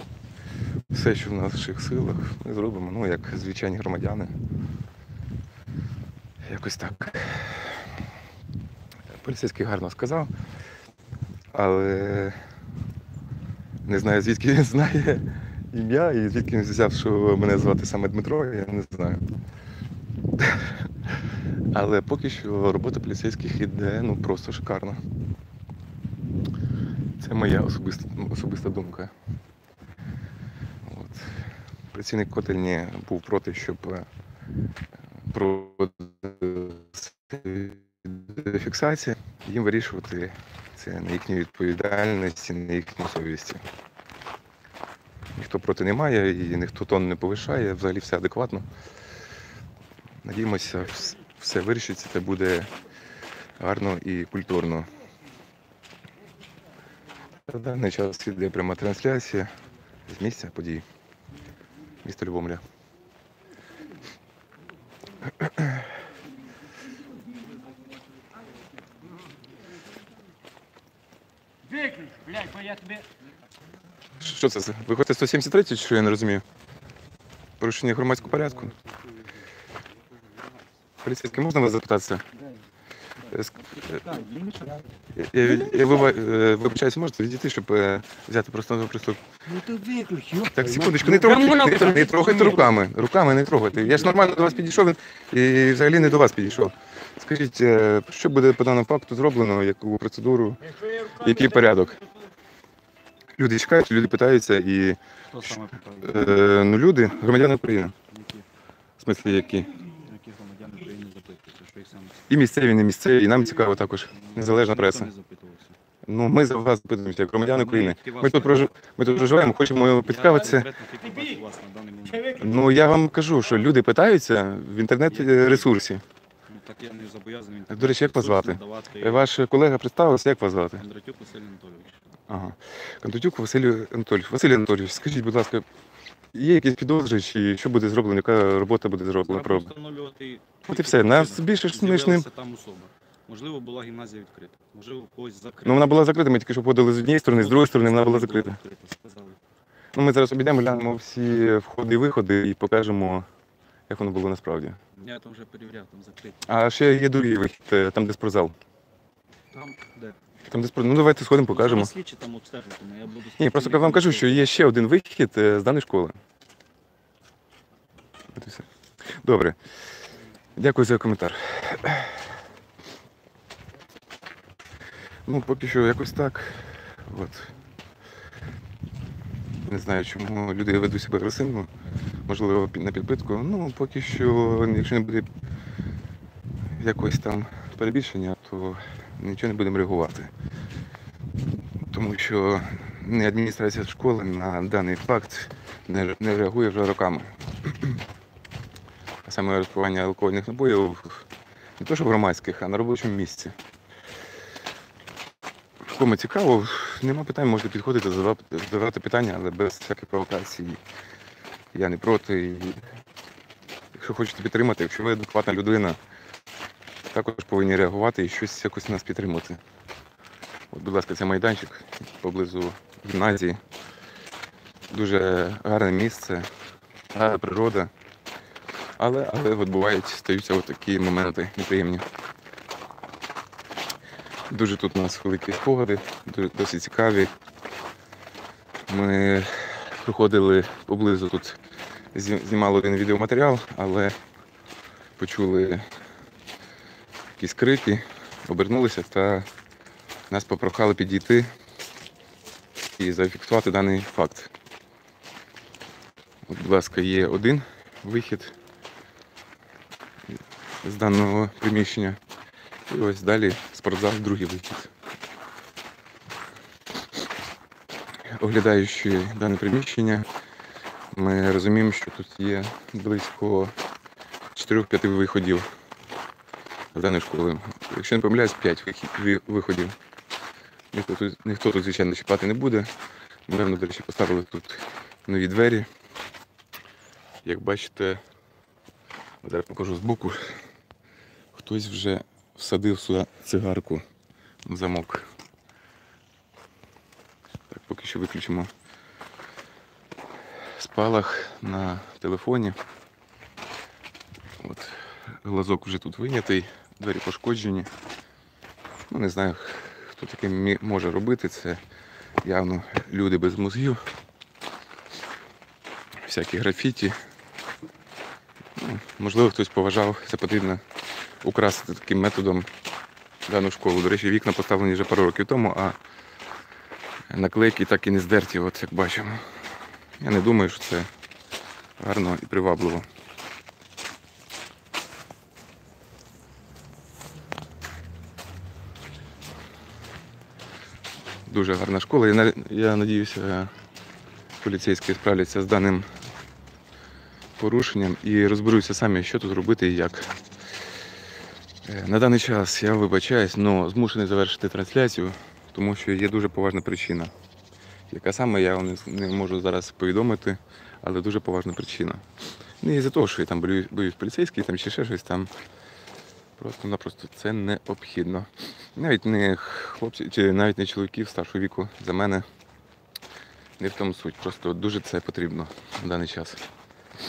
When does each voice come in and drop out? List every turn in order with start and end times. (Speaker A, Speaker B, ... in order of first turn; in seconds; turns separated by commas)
Speaker A: 0.9-4.3, Speaker A: 6.4-7.9, Speaker A: 9.1-10.3, Speaker A: 11.5-12.4, Speaker A: 13.8-19.2, Speaker A: 20.4-20.7, Speaker A: 21.7-25.0, Speaker A: 27.2-29.1, Speaker A: 30.8-34.1, Speaker A: 35.3-43.6, Speaker A: 45.3-48.7, Speaker A: 50.2-52.7, Speaker A: 53.6-54.9, Speaker A: 57.5-59.5, Speaker A: 60.1-60.9, Speaker A: 62.0-62.6, Speaker B: 71.7-73.0, Speaker A: 74.2-76.4, Speaker A: 77.6-78.7, Speaker C: 78.2-78.9, Speaker C: 80.2-80.5, Speaker A: 81.0-82.2, Speaker C: 83.2-84.9, Speaker A: 85.1-89.2, Speaker B: 85.5-86.2, Speaker B: 89.5-92.7, Speaker A: 90.5-100.6, Speaker C: 94.1-94.5, Speaker B: 100.7-102.1, Speaker A: 101.2-102.0, Speaker A: 103.4-107.9, Speaker C: 105.3-106.6, Speaker C: 108.1-108.5, Speaker A: 109.0-109.7, Speaker C: 110.0-112.2, Speaker A: 112.3-115.1, Speaker C: 113.9-115.8, Speaker A: 116.1-120.7, Speaker C: 117.5-119.5, Speaker C: 120.0-122.3, Speaker B: 121.0-121.4, Speaker B: 122.1-122.7, Speaker A: 122.4-126.0, Speaker C: 125.1-125.7, Speaker C: 126.5-129.2, Speaker A: 127.7-130.8, Speaker C: 130.8-132.0, Speaker A: 132.3-135.7, Speaker A: 136.3-139.7, Speaker C: 139.2-146.0, Speaker A: 140.7-142.2, Speaker A: 145.6-148.6, Speaker C: 147.3-149.4, Speaker A: 149.9-153.2, Speaker A: 153.9-154.8, Speaker C: 155.0-156.5, Speaker A: 156.5-158.6, Speaker C: 159.5-160.2, Speaker A: 160.5-161.9, Speaker C: 161.5-164.5, Speaker A: 163.4-166.2, Speaker A: 168.3-168.7, Speaker A: 169.2-169.6, Speaker A: 170.6-172.2, Speaker A: 175.2-177.5, Speaker A: 179.7-181.7, Speaker A: 182.3-185.3, Speaker A: 186.8-190.3, Speaker A: 191.9-198.0, Speaker A: 199.2-201.2, Speaker A: 201.8-203.6, Speaker A: 205.9-210.8, Speaker A: 211.7-212.8, Speaker A: 213.9-216.0, Speaker A: 217.1-219.6, Speaker A: 220.7-223.6, Speaker A: 224.9-226.5, Speaker A: 227.1-227.9, Speaker A: 229.0-232.0, Speaker A: 234.5-237.3, Speaker A: 238.9-241.6, Speaker A: 242.1-244.2, Speaker A: 245.2-245.8, Speaker A: 247.4-249.5, Speaker A: 250.3-251.5, Speaker A: 253.0-254.5, Speaker A: 256.5-258.5, Speaker A: 260.8-262.2, Speaker A: 262.9-264.9, Speaker A: 268.4-270.3, Speaker A: 271.1-273.7, Speaker A: 274.5-275.7, Speaker A: 276.9-279.9, Speaker A: 280.9-282.9, Speaker A: 283.5-285.9, Speaker A: 287.4-288.2, Speaker A: 289.4-290.4, Speaker A: 291.5-294.0, Speaker A: 294.6-295.2, Speaker A: 297.7-298.7, Speaker A: 300.8-302.8, Speaker A: 304.6-307.9, Speaker A: 309.0-311.8, Speaker A: 312.4-314.0, Speaker A: 316.2-317.2, Speaker A: 318.8-320.8, Speaker A: 321.4-322.7, Speaker A: 323.5-326.0, Speaker A: 327.3-329.4, Speaker A: 330.2-331.1, Speaker A: 332.0-333.1, Speaker A: 341.5-343.7, Speaker A: 344.6-346.1, Speaker A: 347.6-350.3, Speaker A: 351.9-357.3, Speaker A: 358.1-362.2, Speaker A: 362.8-365.5, Speaker A: 366.6-372.4, Speaker A: 373.8-376.6